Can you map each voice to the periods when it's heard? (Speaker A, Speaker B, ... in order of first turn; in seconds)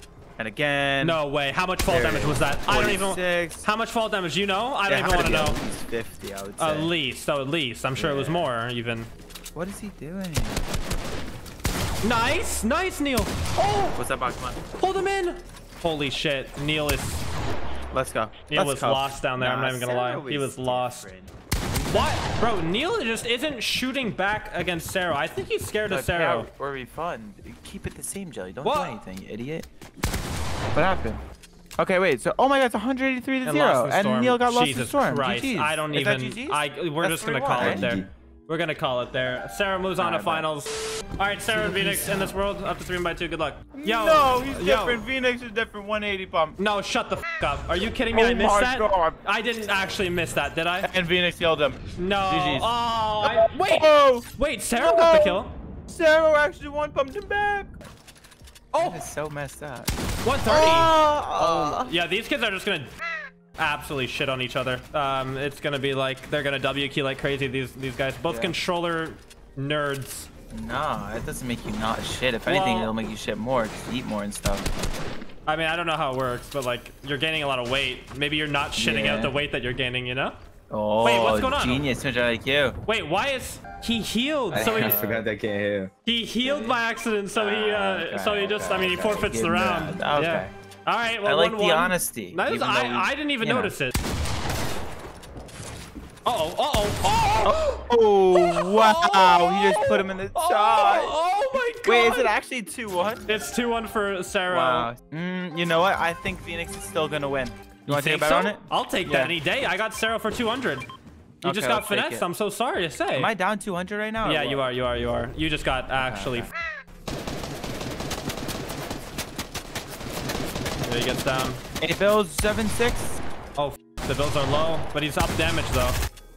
Speaker A: 0.4-1.2, 1.9-3.7, 4.9-6.9, 8.0-8.5, 9.6-10.6, 13.9-14.6, 17.9-22.2, 25.9-29.7, 30.7-31.2, 31.8-38.0, 40.0-40.5, 41.5-42.3, 43.7-46.6, 48.1-49.2, 50.8-52.7, 53.2-57.7, 58.8-59.9, 60.5-62.0, 68.3-68.6, 70.5-74.7, 78.8-79.3, 80.7-82.8, 84.5-85.2, 86.4-86.8, 87.3-90.5, 91.2-93.8, 97.4-101.2, 101.8-103.3, 104.5-109.3, 111.4-112.3, 113.1-114.7, 116.0-116.5, 121.8-123.2
Speaker B: 1.0-5.6, 6.6-9.1, 12.0-14.0, 14.8-17.2, 18.5-21.1, 21.9-26.5, 28.6-29.0, 33.5-45.0, 46.6-50.9, 52.0-55.5, 58.7-59.0, 60.2-62.9, 63.6-70.3, 72.5-73.0, 75.5-80.4, 81.0-81.8, 82.9-85.2, 86.0-94.0, 96.2-102.3, 103.3-104.9, 107.9-110.9, 111.4-113.3, 114.2-116.5, 120.8-121.6, 123.6-126.0
Speaker C: 37.6-38.1, 84.5-85.9